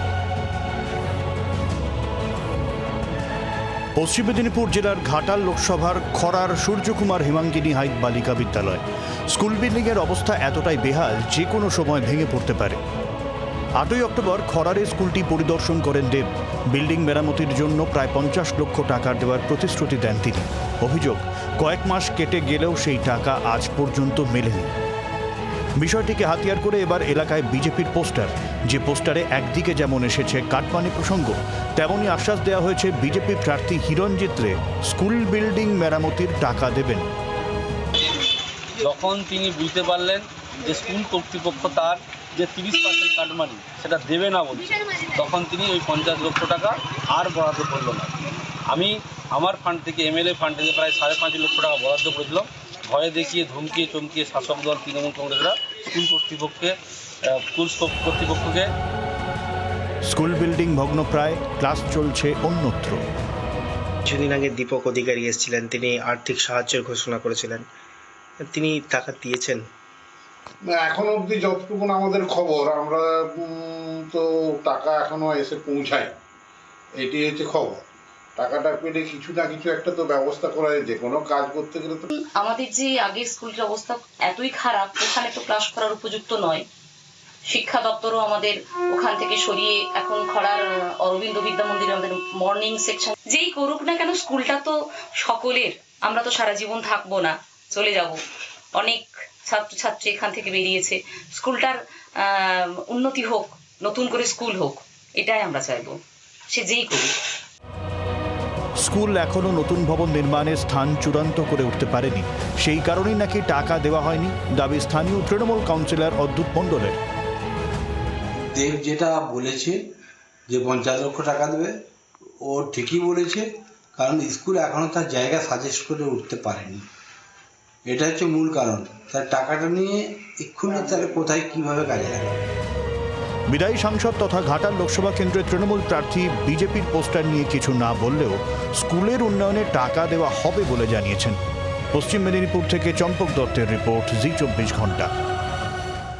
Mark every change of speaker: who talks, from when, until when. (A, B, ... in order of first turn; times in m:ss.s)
0:04.0-0:12.8 A
0:13.8-0:24.7 A
0:25.8-0:37.1 A
0:38.8-0:48.1 B
0:48.7-0:58.7 B
1:00.0-1:03.0 A
1:04.0-1:07.6 C
1:08.4-1:09.6 C
1:10.7-1:16.1 D
1:17.0-1:17.8 D
1:18.4-1:22.0 D
1:22.4-1:26.6 E
1:27.5-1:38.2 E
1:38.8-1:46.0 E
1:46.5-1:47.1 E
1:48.8-1:57.0 A
1:58.4-1:59.8 F
2:00.5-2:01.7 F
2:02.4-2:06.8 F
2:07.8-2:12.4 F
2:13.5-2:21.4 A
2:21.9-2:25.1 A